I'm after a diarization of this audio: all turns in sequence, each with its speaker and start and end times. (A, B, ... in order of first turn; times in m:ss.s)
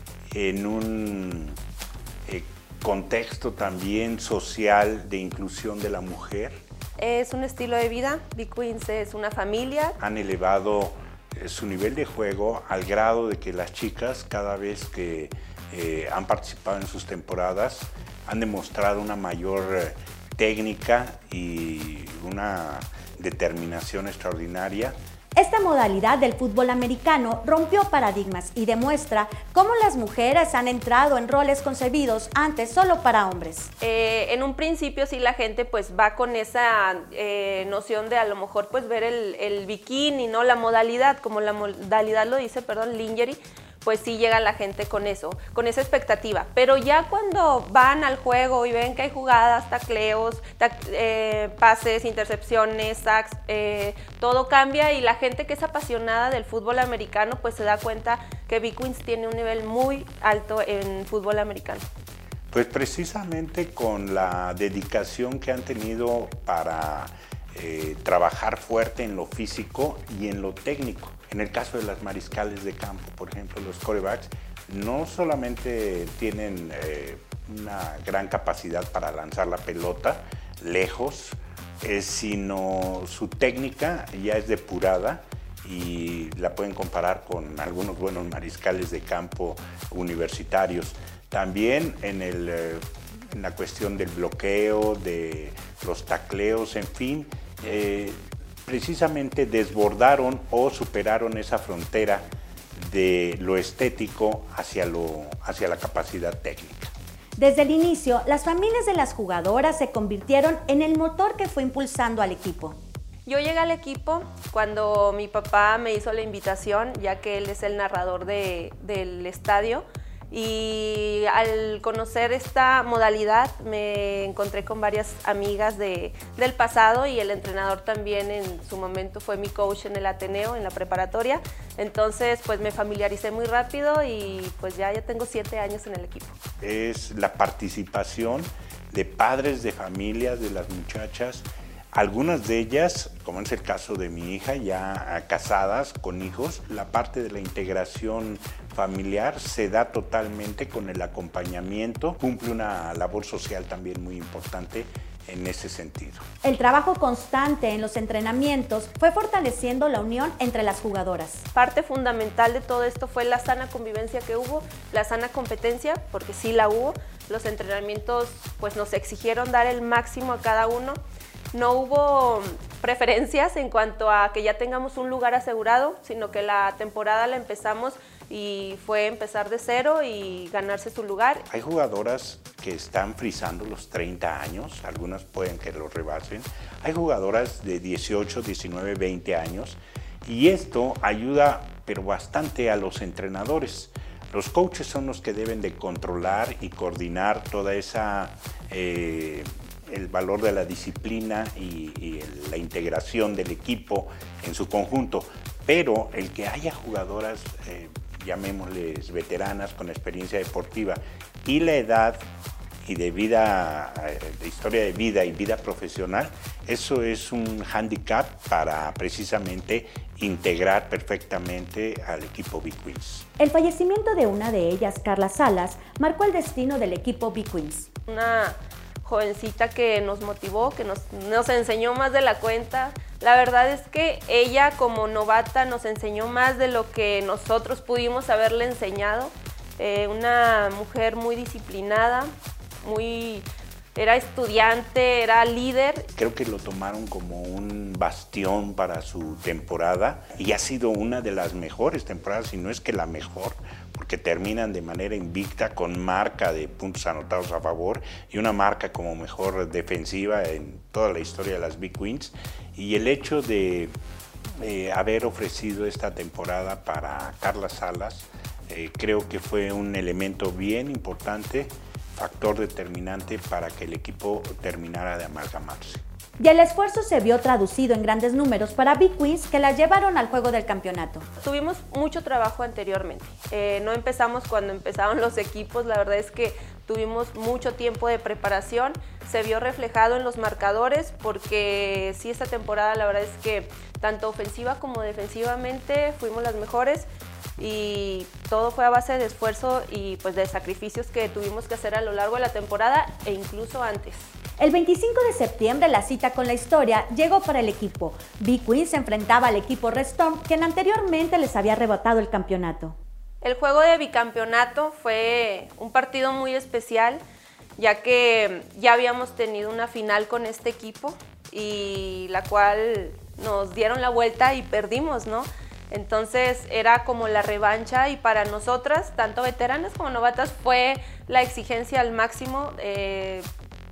0:00.3-0:01.6 A
0:02.2-0:06.6 A
0:07.0-0:10.0 B
0:10.0-0:25.0 A
0:25.4-0:33.7 C
0:33.8-1:01.8 B
1:02.5-1:46.9 A
1:47.4-1:52.8 C
1:53.2-2:16.4 B
2:16.6-2:36.2 A
2:36.4-2:41.4 C
2:41.5-2:51.0 B
2:51.5-3:01.4 B
3:01.5-3:32.2 A
3:32.8-3:43.3 A
3:43.4-3:47.9 C
3:48.1-4:02.3 B
4:02.8-4:06.1 B
4:06.1-4:23.9 A
4:24.6-4:36.0 A
4:36.4-4:41.2 C
4:41.4-5:04.3 B
5:04.6-5:13.0 C
5:13.4-5:17.2 B
5:17.8-5:33.4 B